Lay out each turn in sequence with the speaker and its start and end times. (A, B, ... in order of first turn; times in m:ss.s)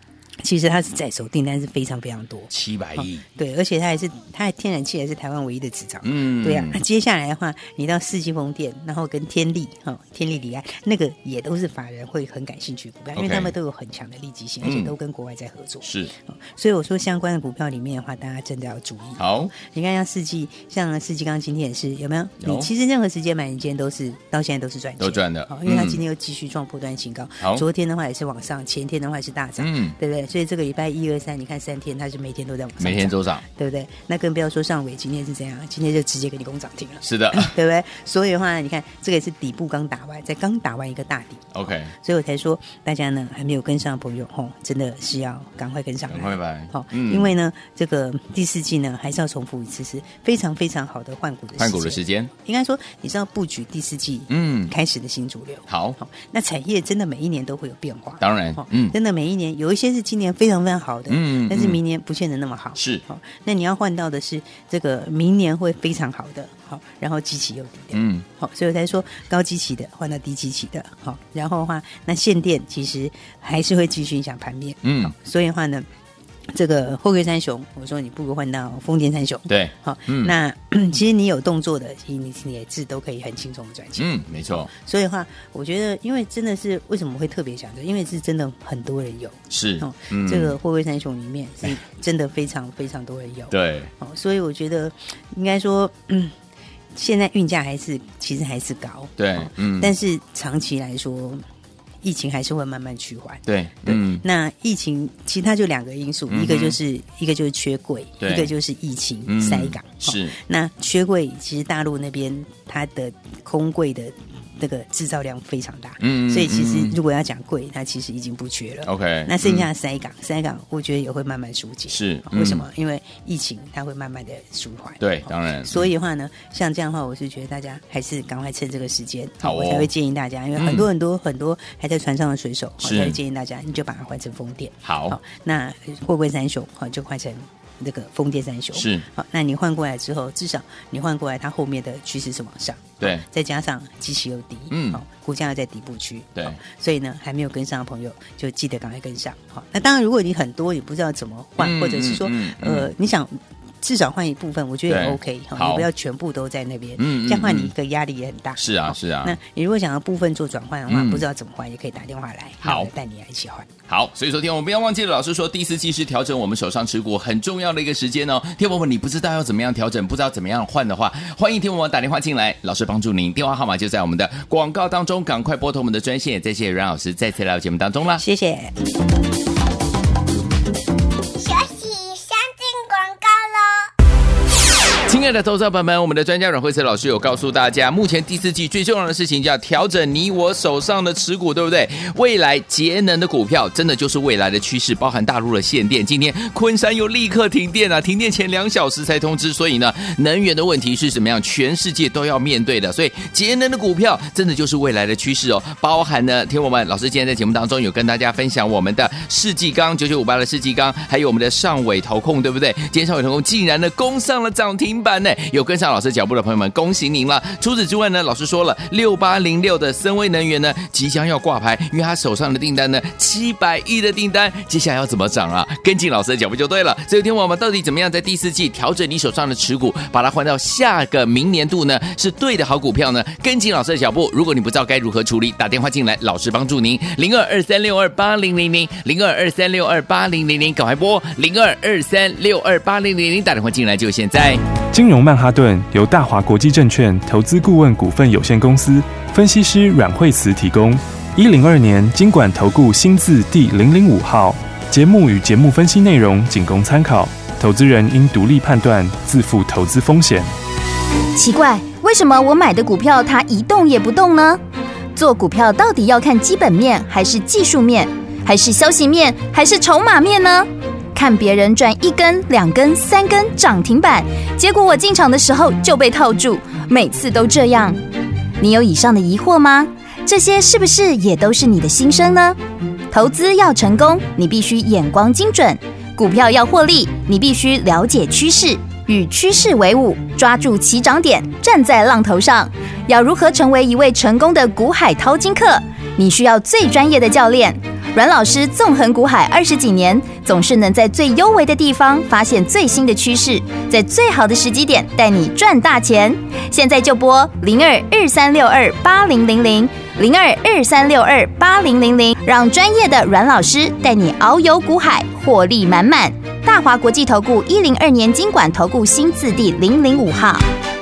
0:00.4-1:15.9 A
0:02.5-0:03.2 B
0:06.0-0:06.8 B
0:13.2-0:13.5 B
0:14.6-0:14.9 B
0:15.8-0:16.1 B
0:19.2-0:19.5 B
0:22.4-0:22.7 B
0:25.0-0:26.0 B
0:29.6-0:30.0 B
0:32.8-0:33.4 B
0:37.0-0:37.5 B
0:41.5-0:41.9 B
0:46.1-0:47.3 B
0:51.6-0:52.3 B
0:54.3-0:54.7 B
0:55.7-0:56.0 B
0:58.2-0:59.0 B
1:01.1-1:01.8 B
1:02.8-1:03.0 B
1:07.9-1:08.2 B
1:14.8-1:15.1 B
1:16.5-1:24.1 A
1:19.5-1:20.3 B
1:24.0-1:24.7 B
1:24.6-1:36.3 A
1:29.5-1:30.5 B
1:33.5-1:33.9 B
1:36.9-1:41.4 A
1:39.2-1:39.9 B
1:42.0-2:43.7 A
1:43.4-1:44.2 B
1:46.3-1:46.8 B
1:48.2-1:48.5 B
1:49.3-1:50.3 B
1:56.0-1:57.0 B
1:58.8-1:59.7 B
2:01.9-2:02.6 B
2:05.0-2:05.9 B
2:09.4-2:09.9 B
2:10.6-2:10.8 B
2:12.8-2:13.2 B
2:14.8-2:15.2 B
2:18.7-2:19.0 B
2:23.0-2:23.2 B
2:24.7-2:25.0 B
2:31.6-2:32.9 B
2:34.9-2:35.9 B
2:37.0-2:37.7 B
2:38.6-2:39.4 B
2:40.9-2:41.2 B
2:42.6-2:42.9 B
2:43.9-2:58.2 B
2:58.2-2:58.7 A
3:01.4-3:03.9 C
3:05.1-4:04.6 B
4:04.9-4:20.5 D
4:21.4-4:24.6 E
4:25.1-4:38.0 E
4:38.6-4:42.6 E
4:43.1-5:20.6 E